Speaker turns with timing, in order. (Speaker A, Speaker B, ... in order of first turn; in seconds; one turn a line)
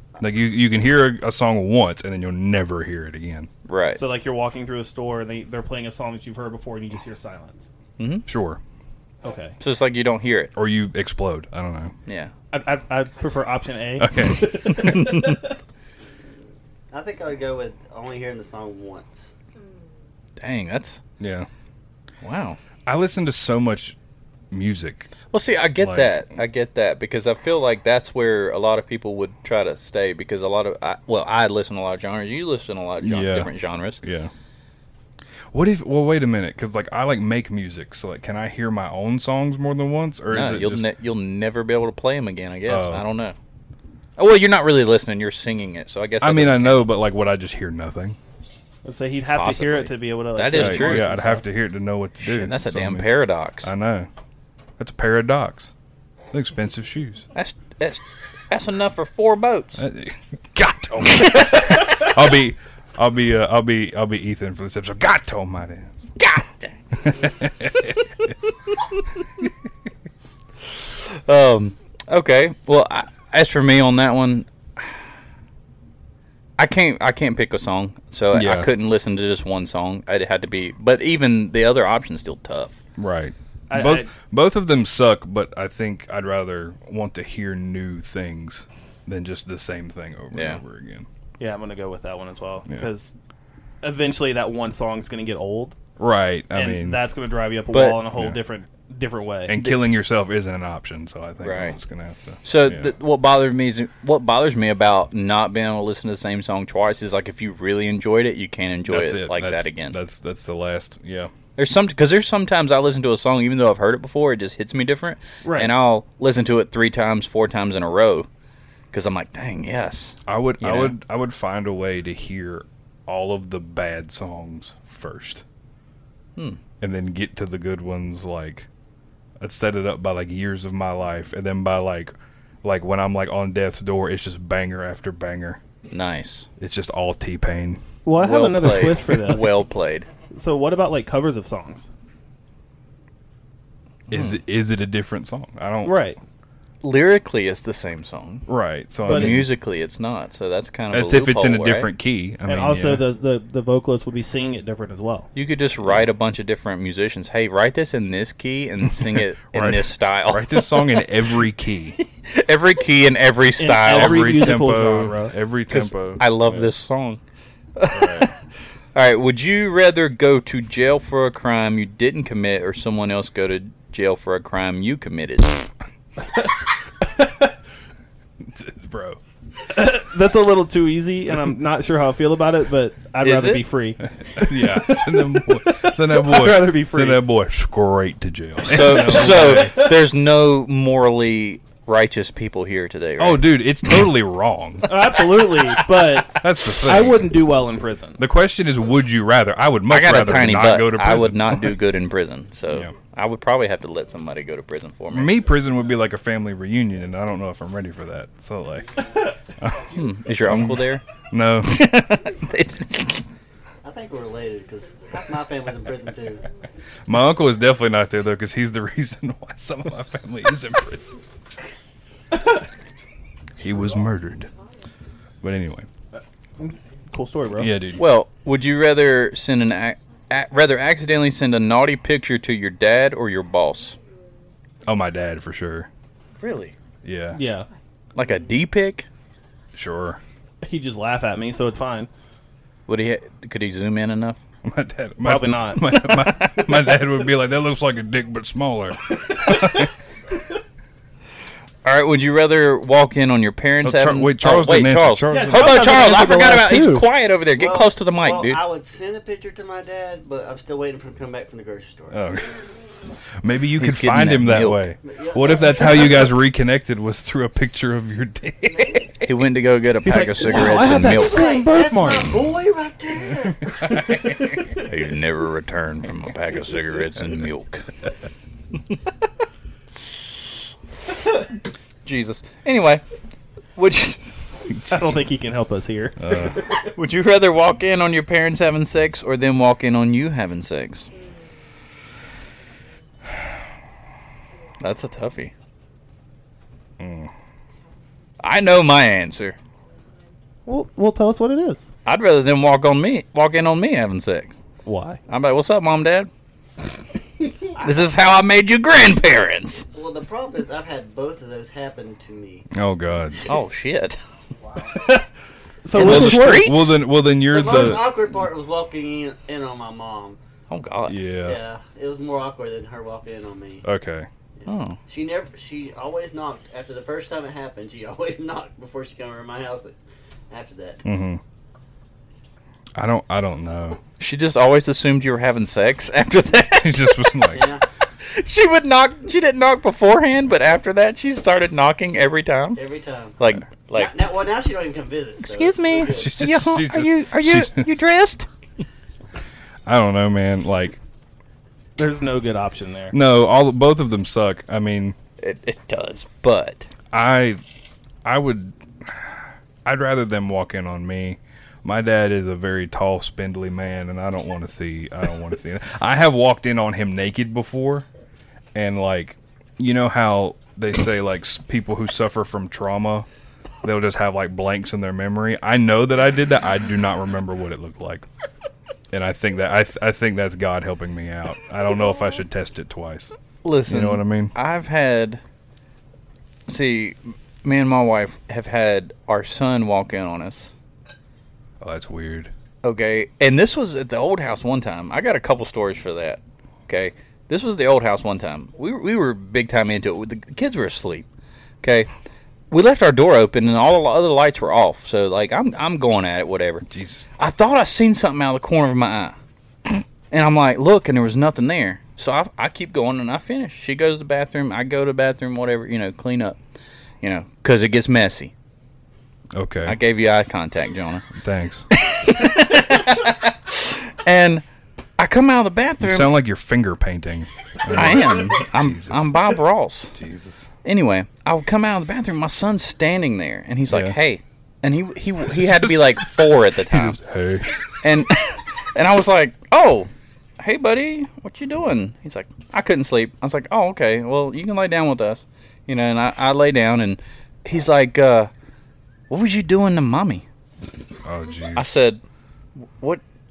Speaker A: 0.2-3.5
Speaker B: 3.7-4.0
Speaker C: 4.0-7.7
Speaker B: 8.0-8.3
Speaker A: 8.3-8.6
Speaker C: 9.2-9.6
Speaker B: 9.6-10.5
Speaker A: 10.6-11.9
Speaker B: 12.1-12.3
Speaker C: 12.5-15.6
Speaker A: 14.0-15.2
Speaker B: 15.0-15.4
Speaker D: 16.9-19.3
Speaker B: 20.4-21.0
Speaker A: 21.2-21.5
Speaker B: 22.2-22.6
Speaker A: 22.9-24.0
Speaker A: 24.5-25.1
Speaker B: 25.3-34.0
Speaker A: 25.8-26.2
Speaker A: 33.0-34.3
Speaker A: 35.5-40.8
Speaker B: 40.3-43.4
Speaker A: 42.7-43.0
Speaker B: 44.2-46.9
Speaker A: 46.2-48.2
Speaker C: 48.8-51.4
Speaker B: 49.4-51.1
Speaker A: 50.5-54.1
Speaker B: 52.2-53.7
Speaker A: 54.8-55.7
Speaker A: 56.3-57.3
Speaker B: 57.4-59.8
Speaker A: 59.8-65.9
Speaker B: 61.1-61.7
Speaker B: 66.2-67.2
Speaker A: 67.1-68.0
Speaker B: 68.7-69.0
Speaker B: 70.8-75.0
Speaker B: 76.6-82.8
Speaker A: 78.3-78.7
Speaker A: 83.0-91.1
Speaker C: 83.7-84.1
Speaker B: 90.3-90.6
Speaker C: 91.4-93.1
Speaker C: 93.8-95.8
Speaker A: 96.0-97.0
Speaker C: 96.5-99.6
Speaker B: 97.7-98.0
Speaker A: 98.1-98.4
Speaker A: 99.5-102.9
Speaker B: 101.4-101.8
Speaker B: 102.4-110.0
Speaker A: 108.9-111.3
Speaker B: 111.6-118.3
Speaker C: 115.4-115.7
Speaker B: 118.9-121.0
Speaker A: 120.3-125.4
Speaker A: 126.8-128.7
Speaker A: 129.4-132.1
Speaker A: 132.6-135.6
Speaker B: 135.9-136.5
Speaker A: 136.6-137.8
Speaker C: 138.1-139.6
Speaker B: 138.2-140.1
Speaker C: 140.3-141.9
Speaker A: 144.1-145.9
Speaker B: 144.1-144.4
Speaker C: 145.8-146.2
Speaker B: 146.8-148.5
Speaker A: 148.5-149.5
Speaker B: 149.1-151.9
Speaker C: 149.1-149.4
Speaker A: 150.9-153.1
Speaker C: 152.5-155.3
Speaker B: 155.3-161.0
Speaker A: 159.0-162.0
Speaker B: 162.2-164.5
Speaker C: 163.6-165.3
Speaker A: 163.9-166.7
Speaker B: 165.7-167.2
Speaker B: 167.8-168.3
Speaker A: 167.9-168.3
Speaker B: 168.9-175.7
Speaker C: 177.1-177.5
Speaker A: 178.4-179.2
Speaker C: 179.7-187.2
Speaker B: 183.2-183.7
Speaker A: 184.2-189.9
Speaker B: 188.6-193.6
Speaker C: 188.8-189.9
Speaker A: 193.2-195.0
Speaker C: 194.8-198.2
Speaker A: 196.3-197.4
Speaker A: 198.2-201.8
Speaker B: 199.9-205.4
Speaker A: 205.1-209.0
Speaker A: 209.6-211.8
Speaker B: 209.9-211.0
Speaker B: 211.7-213.2
Speaker D: 213.8-216.4
Speaker A: 217.1-221.2
Speaker A: 223.6-224.5
Speaker A: 225.4-225.9
Speaker C: 226.6-227.7
Speaker A: 227.6-228.0
Speaker B: 228.0-234.0
Speaker A: 234.8-235.9
Speaker B: 236.4-236.8
Speaker A: 237.0-237.4
Speaker C: 237.3-237.7
Speaker B: 238.1-239.1
Speaker A: 239.7-240.2
Speaker C: 240.6-242.1
Speaker B: 242.9-244.4
Speaker A: 244.6-249.9
Speaker C: 245.2-245.9
Speaker B: 245.8-247.0
Speaker B: 251.8-258.6
Speaker A: 253.8-255.9
Speaker C: 255.3-257.1
Speaker D: 257.6-262.2
Speaker A: 262.1-262.5
Speaker A: 263.4-269.1
Speaker B: 263.8-264.9
Speaker D: 265.0-266.4
Speaker D: 268.7-269.1
Speaker B: 269.2-271.5
Speaker C: 270.1-272.5
Speaker D: 271.1-274.3
Speaker A: 273.6-274.2
Speaker B: 274.8-277.9
Speaker B: 282.1-283.0
Speaker B: 283.8-284.2
Speaker C: 284.9-286.6
Speaker A: 286.2-286.6
Speaker B: 286.8-291.1
Speaker B: 294.8-295.5
Speaker A: 297.0-297.3
Speaker B: 298.4-299.6
Speaker C: 300.7-301.9
Speaker B: 302.1-304.5
Speaker C: 304.9-305.2
Speaker B: 305.3-306.3
Speaker B: 307.8-309.9
Speaker D: 309.9-312.7
Speaker A: 312.7-313.5
Speaker B: 313.4-314.2
Speaker C: 314.9-315.3
Speaker C: 315.8-317.0
Speaker B: 315.9-316.9
Speaker A: 315.9-318.2
Speaker D: 317.4-320.4
Speaker B: 320.7-321.2
Speaker A: 321.1-321.6
Speaker D: 321.4-323.9
Speaker A: 323.8-324.3
Speaker D: 324.6-330.0
Speaker B: 324.7-325.0
Speaker D: 330.5-331.1
Speaker A: 331.1-331.4
Speaker A: 333.0-334.0
Speaker B: 334.2-337.3
Speaker A: 336.8-337.7
Speaker D: 337.5-337.8
Speaker B: 338.2-342.8
Speaker D: 342.8-343.4
Speaker B: 343.4-344.2
Speaker D: 343.9-346.3
Speaker B: 345.4-348.5
Speaker A: 346.1-347.9
Speaker A: 349.9-351.0
Speaker C: 352.0-353.2
Speaker A: 353.1-355.2
Speaker B: 355.4-356.9
Speaker A: 357.1-357.6
Speaker A: 358.2-368.1
Speaker A: 368.8-373.3
Speaker A: 373.8-378.3
Speaker A: 379.1-383.3
Speaker B: 383.6-385.4
Speaker A: 383.9-384.5
Speaker B: 386.7-390.7
Speaker A: 391.8-392.5
Speaker B: 392.8-401.3
Speaker B: 401.8-402.1
Speaker B: 402.7-406.9
Speaker A: 406.9-407.3
Speaker B: 407.4-409.4
Speaker B: 409.9-416.6
Speaker B: 417.2-418.5
Speaker A: 419.5-420.0
Speaker B: 419.9-421.3
Speaker A: 421.3-421.9
Speaker B: 421.9-424.6
Speaker B: 425.2-426.3
Speaker A: 426.0-429.5
Speaker B: 427.9-430.1
Speaker A: 430.1-430.7
Speaker B: 430.8-437.2
Speaker A: 433.9-434.1
Speaker A: 435.5-436.3
Speaker A: 436.9-437.8
Speaker B: 438.0-448.5
Speaker B: 449.3-450.4
Speaker A: 451.2-451.9
Speaker B: 451.8-452.2
Speaker B: 452.8-453.2